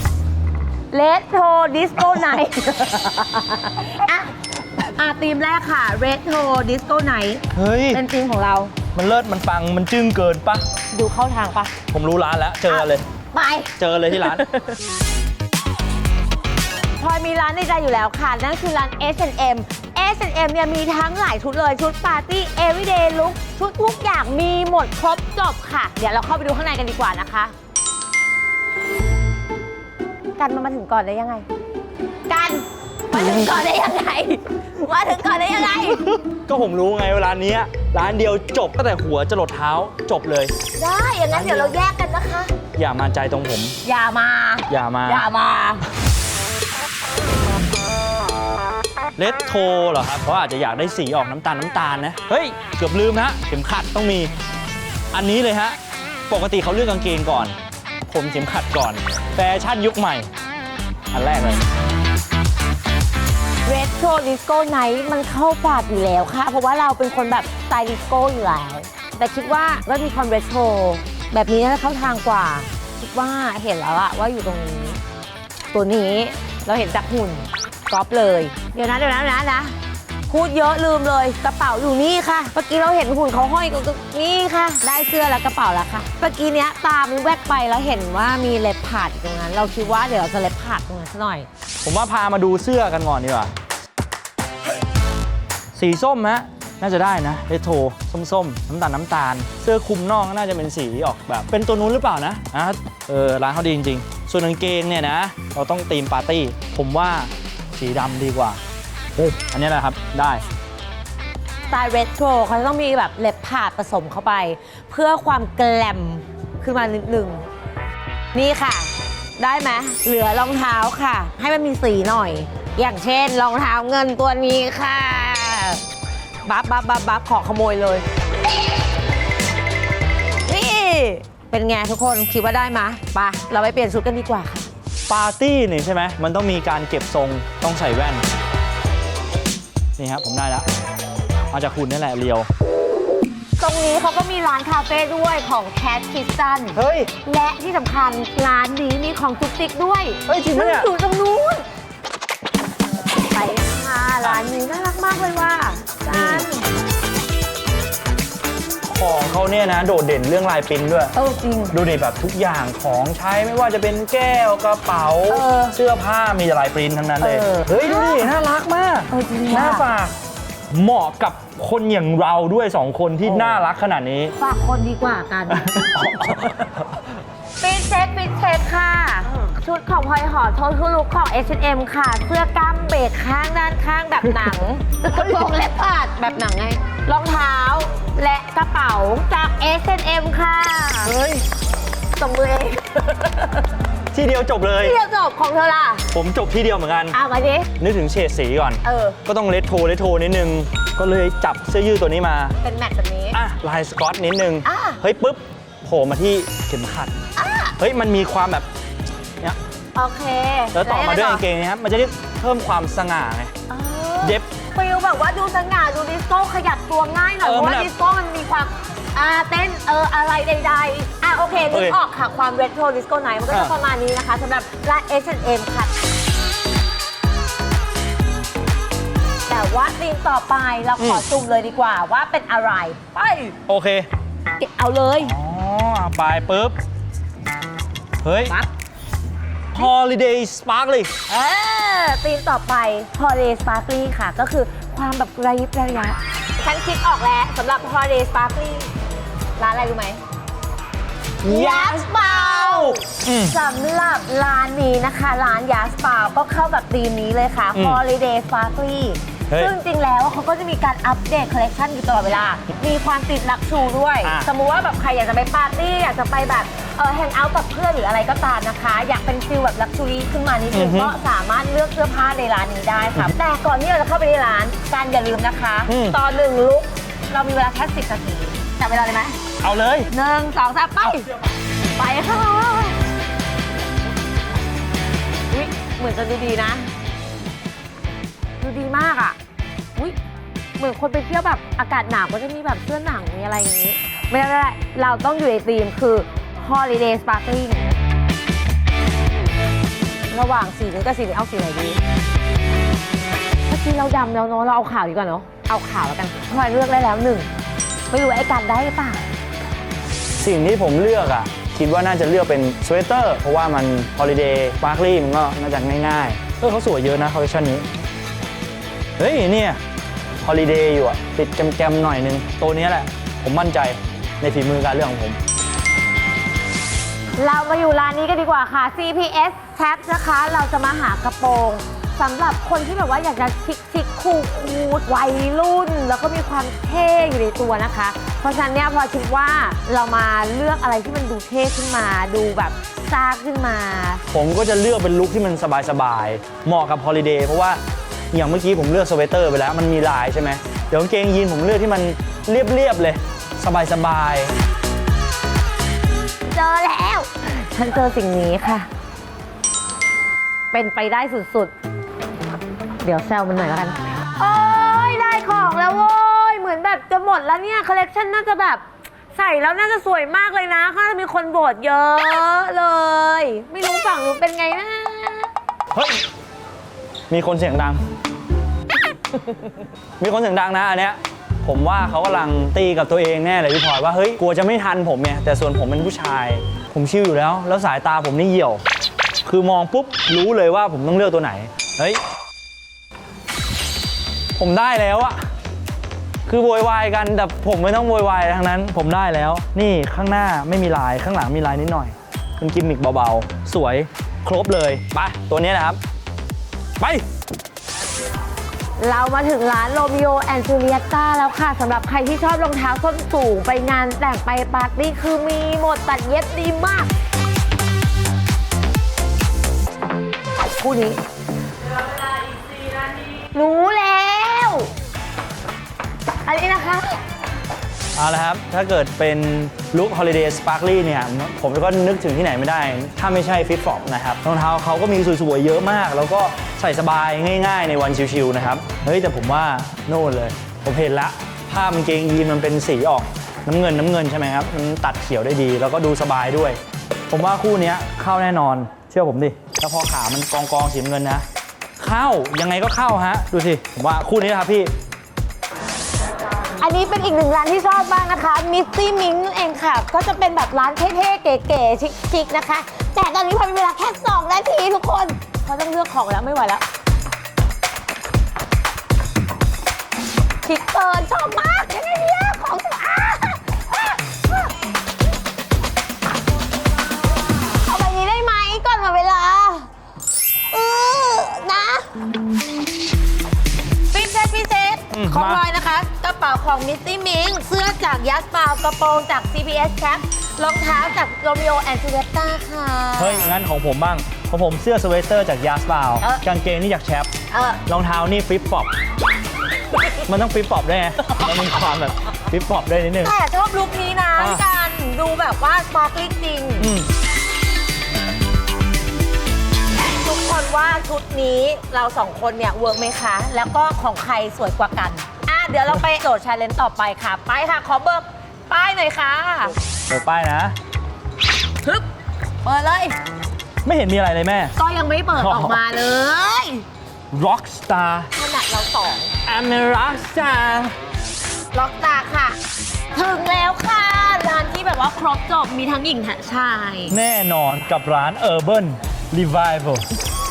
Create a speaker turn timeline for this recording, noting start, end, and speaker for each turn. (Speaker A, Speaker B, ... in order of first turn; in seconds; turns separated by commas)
Speaker A: 0.9-8.7, Speaker B: 2.0-2.2, Speaker B: 7.5-8.0, Speaker B: 8.9-10.7, Speaker A: 10.9-11.7, Speaker B: 11.9-13.0, Speaker A: 12.7-14.3, Speaker B: 13.8-14.5, Speaker A: 17.0-27.5, Speaker A: 30.4-31.4, Speaker A: 32.3-36.0, Speaker B: 35.8-40.5, Speaker A: 40.8-42.5, Speaker B: 41.3-41.8, Speaker B: 42.8-43.8, Speaker A: 43.8-45.8, Speaker B: 44.7-45.3, Speaker B: 49.2-54.3, Speaker B: 55.1-55.8, Speaker B: 56.3-57.5, Speaker B: 58.1-60.3, Speaker B: 61.1-61.6, Speaker A: 63.6-75.0, Speaker A: 75.7-79.8, Speaker A: 80.3-91.5, Speaker B: 91.8-93.5, Speaker B: 95.7-108.6, Speaker B: 109.2-110.4, Speaker A: 111.7-117.5, Speaker A: 118.3-125.8, Speaker A: 126.4-128.0, Speaker A: 130.4-134.7, Speaker B: 135.1-138.2, Speaker B: 140.0-140.7, Speaker B: 141.5-142.5, Speaker A: 143.6-151.6, Speaker B: 146.7-147.1, Speaker B: 150.2-150.9, Speaker A: 153.3-156.7, Speaker B: 156.1-156.5, Speaker B: 158.8-161.1, Speaker A: 161.1-161.8, Speaker B: 161.7-170.1, Speaker A: 165.3-165.8, Speaker A: 167.2-168.3, Speaker A: 169.1-169.9, Speaker B: 170.7-174.3, Speaker A: 173.3-173.6, Speaker A: 174.4-175.7, Speaker B: 175.5-177.0, Speaker A: 177.6-191.1, Speaker B: 185.1-185.5, Speaker B: 191.0-191.4, Speaker A: 192.1-193.6, Speaker B: 194.1-195.0, Speaker A: 194.8-196.1, Speaker B: 196.1-197.2, Speaker A: 197.1-197.7, Speaker B: 197.8-202.6, Speaker A: 198.8-199.2, Speaker A: 202.6-203.4, Speaker B: 203.3-207.1, Speaker A: 204.6-205.0, Speaker A: 207.3-207.8, Speaker B: 207.8-208.7, Speaker A: 209.9-211.4, Speaker B: 210.7-213.5, Speaker A: 213.7-225.9, Speaker B: 217.4-217.9, Speaker B: 221.7-222.0, Speaker B: 223.5-223.7, Speaker A: 229.5-233.5, Speaker B: 231.0-231.2, Speaker B: 233.7-234.1, Speaker A: 234.6-235.3, Speaker B: 235.2-236.8, Speaker B: 238.2-238.5, Speaker B: 239.7-241.1, Speaker A: 241.3-248.9, Speaker A: 249.6-250.2, Speaker B: 251.4-253.6, Speaker A: 251.4-279.4, Speaker B: 257.7-258.0, Speaker B: 264.2-264.5, Speaker B: 270.7-271.1, Speaker B: 275.9-276.2, Speaker B: 279.6-280.1, Speaker A: 280.1-281.3, Speaker A: 281.9-283.0, Speaker A: 285.5-286.9, Speaker A: 288.6-289.4, Speaker A: 290.8-298.0, Speaker A: 300.3-302.0, Speaker A: 303.7-307.5, Speaker A: 308.1-309.2, Speaker B: 310.4-317.9, Speaker B: 319.2-319.8, Speaker B: 320.4-325.4, Speaker A: 327.4-344.2, Speaker B: 344.3-347.8, Speaker B: 348.3-354.5, Speaker A: 356.5-358.9, Speaker A: 360.7-361.7, Speaker A: 363.0-375.5, Speaker B: 375.9-376.2, Speaker B: 377.3-378.0, Speaker B: 380.2-388.8, Speaker B: 389.4-392.2, Speaker B: 394.6-395.4, Speaker B: 396.4-406.0, Speaker B: 407.0-407.2, Speaker A: 409.0-417.1, Speaker A: 420.8-421.2, Speaker A: 423.5-424.9, Speaker A: 426.4-427.2, Speaker B: 428.1-446.8, Speaker B: 447.3-451.4, Speaker B: 452.0-454.9, Speaker A: 456.8-466.8, Speaker A: 470.6-474.7, Speaker A: 477.8-479.9, Speaker A: 480.7-482.1, Speaker A: 484.1-493.5, Speaker B: 485.1-485.6, Speaker B: 493.2-497.3, Speaker A: 497.5-497.8, Speaker B: 497.9-498.9, Speaker B: 500.2-503.3, Speaker A: 503.2-506.9, Speaker B: 504.4-504.6, Speaker B: 506.8-507.1, Speaker A: 510.1-519.7, Speaker B: 520.1-520.7, Speaker A: 522.6-523.1, Speaker B: 523.8-524.7, Speaker A: 524.8-526.8, Speaker B: 525.4-525.8, Speaker B: 527.3-528.3, Speaker A: 528.3-529.3, Speaker B: 529.4-530.9, Speaker A: 531.7-532.6, Speaker A: 533.1-537.1, Speaker B: 537.1-540.1